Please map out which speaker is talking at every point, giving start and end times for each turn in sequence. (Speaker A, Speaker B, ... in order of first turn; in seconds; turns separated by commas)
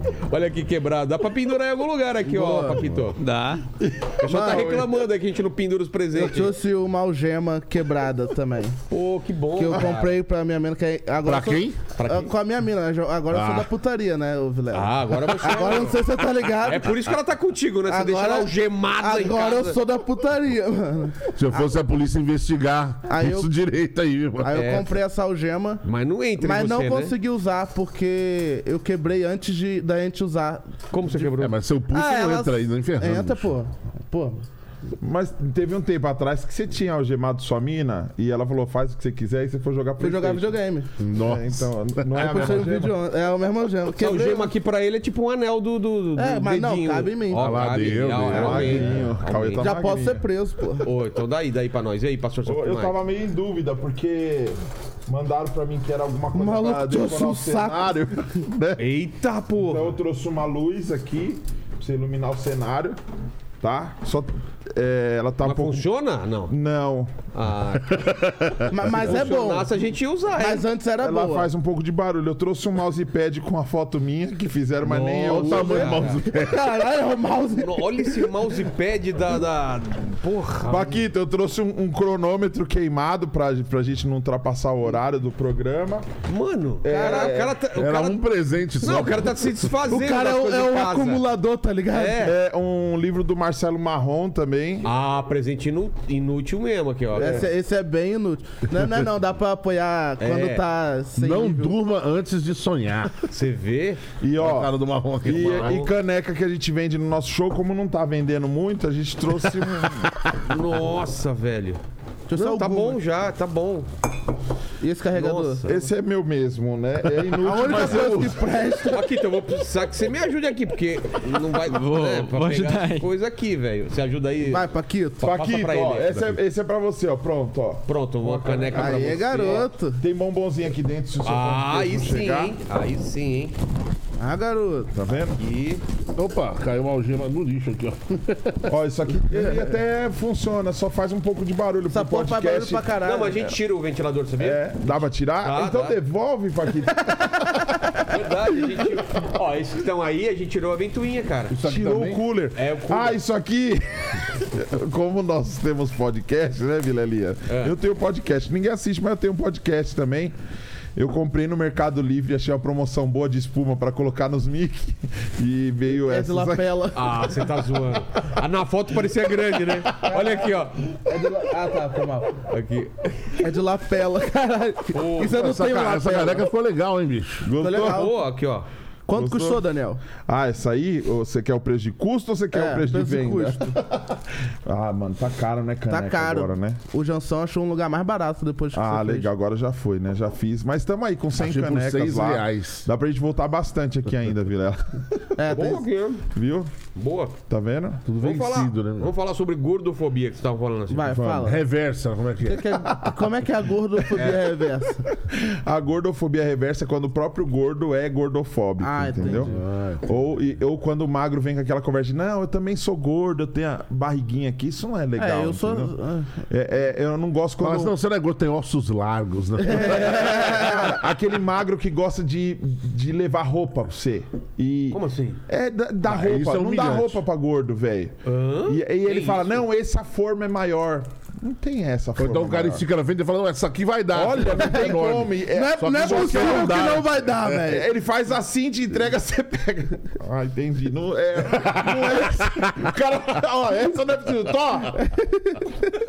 Speaker A: 0.2-3.2, Speaker B: 2.2-2.9, Speaker C: 3.2-3.7, Speaker D: 3.8-4.5, Speaker A: 4.2-6.5, Speaker B: 4.2-4.9, Speaker B: 6.1-8.8, Speaker A: 8.9-10.1, Speaker B: 9.6-17.0, Speaker E: 11.2-11.8, Speaker A: 11.9-12.3, Speaker E: 13.3-13.7, Speaker A: 14.7-19.8, Speaker B: 17.9-21.8, Speaker E: 21.3-24.8, Speaker B: 23.1-23.5, Speaker B: 24.4-25.8, Speaker A: 24.5-24.9, Speaker A: 25.8-27.1, Speaker B: 26.4-30.7, Speaker A: 30.9-31.6, Speaker E: 31.3-33.5, Speaker B: 31.9-34.5, Speaker D: 35.0-43.0, Speaker B: 40.0-40.9, Speaker E: 41.0-42.7, Speaker B: 42.1-44.5, Speaker A: 44.0-49.7, Speaker B: 46.2-47.7, Speaker E: 47.3-49.1, Speaker D: 48.2-50.2, Speaker B: 49.6-50.9, Speaker A: 50.8-53.0, Speaker D: 52.5-58.9, Speaker B: 56.3-58.0, Speaker A: 58.8-60.0, Speaker D: 59.6-63.0, Speaker D: 63.6-65.9, Speaker A: 65.4-66.5, Speaker D: 66.5-67.2, Speaker A: 67.3-68.0, Speaker E: 67.9-68.7, Speaker B: 68.7-69.7, Speaker A: 68.8-70.7, Speaker B: 70.3-71.5, Speaker D: 71.0-76.1, Speaker A: 74.8-76.2, Speaker E: 75.3-76.7, Speaker B: 76.3-78.4, Speaker A: 77.6-81.0, Speaker D: 80.7-86.1, Speaker A: 86.3-88.3, Speaker D: 86.8-87.6, Speaker B: 86.9-87.4, Speaker E: 87.7-89.5, Speaker A: 88.8-91.2, Speaker B: 89.9-92.3, Speaker A: 91.9-92.4, Speaker D: 92.2-94.9, Speaker A: 94.8-97.5, Speaker B: 97.2-101.8, Speaker D: 97.2-97.5, Speaker A: 100.2-100.6, Speaker E: 101.2-103.2, Speaker A: 103.3-104.0, Speaker D: 104.2-104.7, Speaker E: 104.4-105.8, Speaker A: 105.2-105.9, Speaker D: 105.2-110.2, Speaker A: 110.4-111.8, Speaker B: 112.3-113.0, Speaker A: 112.3-113.9, Speaker B: 114.8-115.9, Speaker A: 115.1-115.8, Speaker D: 115.7-118.5, Speaker B: 117.4-119.0, Speaker A: 118.9-124.7, Speaker C: 121.7-123.1, Speaker B: 124.5-125.3, Speaker A: 125.2-126.4, Speaker D: 125.2-132.6, Speaker A: 127.9-129.7, Speaker B: 128.7-130.0, Speaker A: 131.2-133.6, Speaker B: 134.2-134.9, Speaker D: 134.9-135.4, Speaker A: 135.4-135.8, Speaker E: 136.2-138.7, Speaker D: 138.7-143.0, Speaker E: 139.3-139.7, Speaker B: 141.9-143.5, Speaker A: 143.0-146.0, Speaker D: 144.4-148.2, Speaker A: 148.0-151.7, Speaker E: 151.5-152.2, Speaker D: 151.6-160.3, Speaker A: 152.6-153.2, Speaker A: 157.5-157.8, Speaker D: 161.0-166.9, Speaker B: 166.0-167.2, Speaker A: 166.9-170.8, Speaker B: 170.0-170.5, Speaker B: 171.1-172.4, Speaker A: 172.4-173.4, Speaker B: 173.4-176.5, Speaker A: 174.9-175.4, Speaker E: 175.3-177.5, Speaker D: 177.4-178.1, Speaker B: 177.6-178.2, Speaker A: 177.8-178.7, Speaker B: 179.1-180.0, Speaker D: 179.1-179.6, Speaker D: 180.2-186.8, Speaker B: 182.5-183.8, Speaker B: 185.9-189.3, Speaker D: 188.7-195.2, Speaker E: 191.4-192.9, Speaker B: 195.4-195.8, Speaker A: 195.5-196.3, Speaker D: 196.3-196.7, Speaker A: 196.9-197.4, Speaker D: 197.5-198.0, Speaker E: 198.1-199.1, Speaker A: 198.2-201.2, Speaker B: 200.9-201.6, Speaker D: 201.1-201.5, Speaker E: 201.4-202.8, Speaker B: 202.4-205.0, Speaker D: 202.9-203.2, Speaker A: 204.2-204.5, Speaker D: 205.1-215.9, Speaker B: 208.8-209.5, Speaker E: 209.2-210.1, Speaker B: 215.2-216.4, Speaker D: 216.5-217.9, Speaker E: 217.6-220.4, Speaker B: 219.6-220.9, Speaker D: 219.7-232.8, Speaker A: 224.9-225.4, Speaker E: 226.0-227.2, Speaker A: 228.2-229.6, Speaker E: 232.2-237.6, Speaker D: 234.1-236.9, Speaker B: 235.5-237.9, Speaker D: 237.6-245.0, Speaker E: 241.6-242.6, Speaker B: 245.0-245.6